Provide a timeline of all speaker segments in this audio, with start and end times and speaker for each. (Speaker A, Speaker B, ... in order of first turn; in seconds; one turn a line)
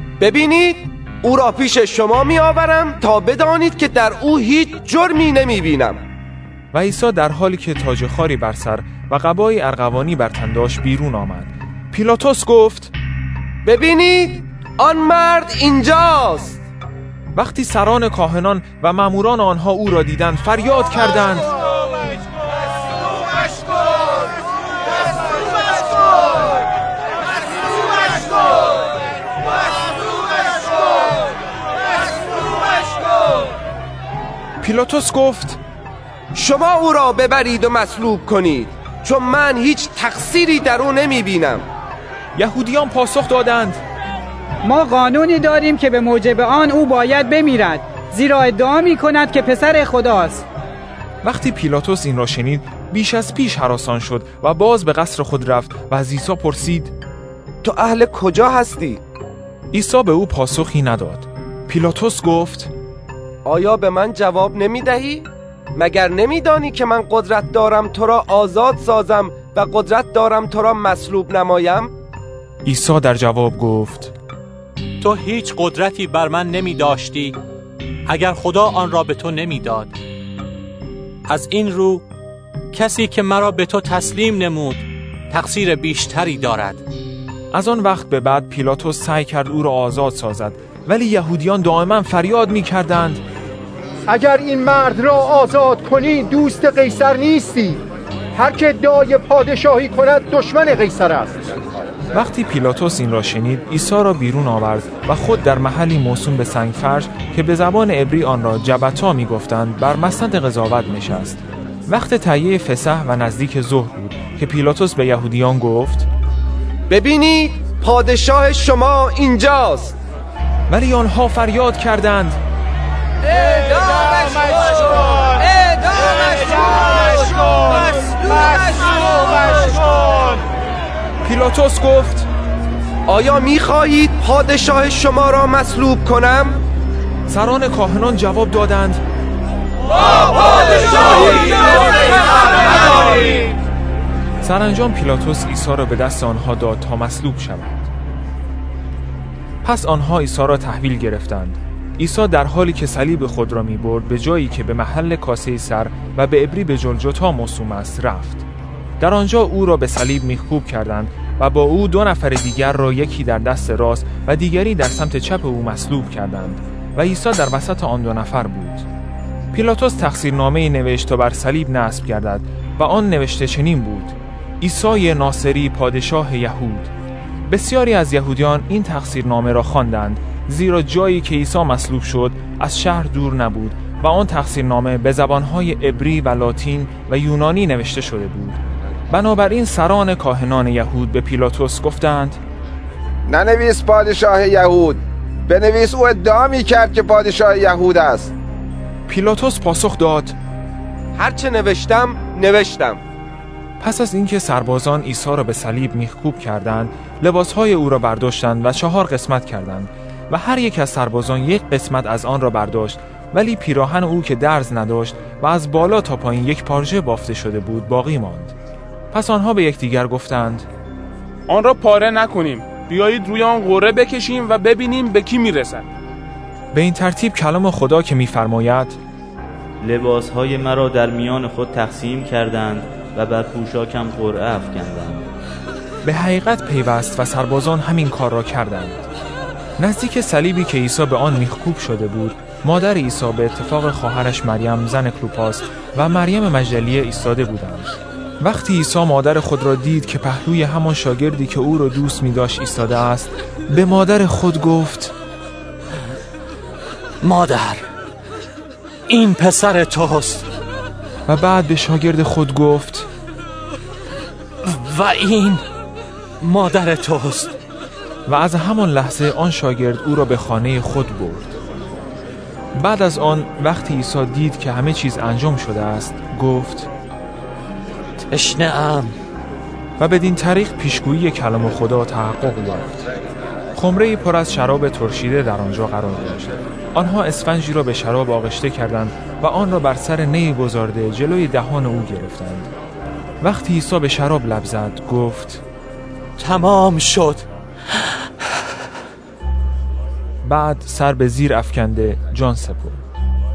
Speaker A: 0.2-6.0
Speaker B: 6.7-12.9
Speaker A: 13.6-16.6
Speaker B: 17.3-21.4
Speaker B: 34.6-35.6
Speaker A: 36.3-41.6
Speaker B: 42.4-43.8
Speaker C: 44.6-50.4
Speaker B: 51.2-56.9
Speaker A: 57.6-59.0
Speaker B: 59.7-62.7
Speaker A: 63.5-71.9
Speaker B: 72.6-74.1
Speaker D: 75.0-77.4
Speaker D: 78.1-80.0
Speaker D: 81.3-82.0
Speaker D: 82.7-86.8
Speaker B: 87.5-93.2
Speaker E: 94.1-97.8
Speaker E: 98.3-101.4
Speaker B: 102.1-116.1
Speaker A: 116.9-120.0
Speaker B: 120.7-122.4
Speaker A: 123.3-130.4
Speaker B: 131.2-132.3
Speaker A: 133.1-136.6
Speaker B: 137.3-139.0
Speaker A: 140.9-141.2
Speaker A: 142.8-143.0
Speaker B: 144.4-147.9
Speaker B: 149.6-158.4
Speaker B: 159.0-168.8
Speaker B: 169.5-176.9
Speaker B: 177.5-188.6
Speaker B: 189.1-192.4
Speaker F: 193.3-198.3
Speaker B: 199.1-200.3
Speaker A: 201.2-203.0
Speaker B: 203.8-218.5
Speaker B: 219.1-220.7
Speaker G: 221.5-225.9
Speaker B: 226.7-229.0
Speaker H: 229.8-235.3
Speaker B: 236.0-239.0
Speaker B: 239.8-255.1
Speaker D: 257.2-257.8
Speaker D: 259.1-260.5
Speaker B: 261.3-263.1
Speaker D: 264.6-265.6
Speaker D: 266.4-267.6
Speaker B: 268.3-271.6
Speaker B: 272.8-276.9
Speaker D: 278.3-279.2
Speaker B: 280.0-283.0
Speaker B: 283.8-292.7
Speaker B: 293.4-295.6
Speaker D: 296.4-298.6
Speaker B: 300.4-303.0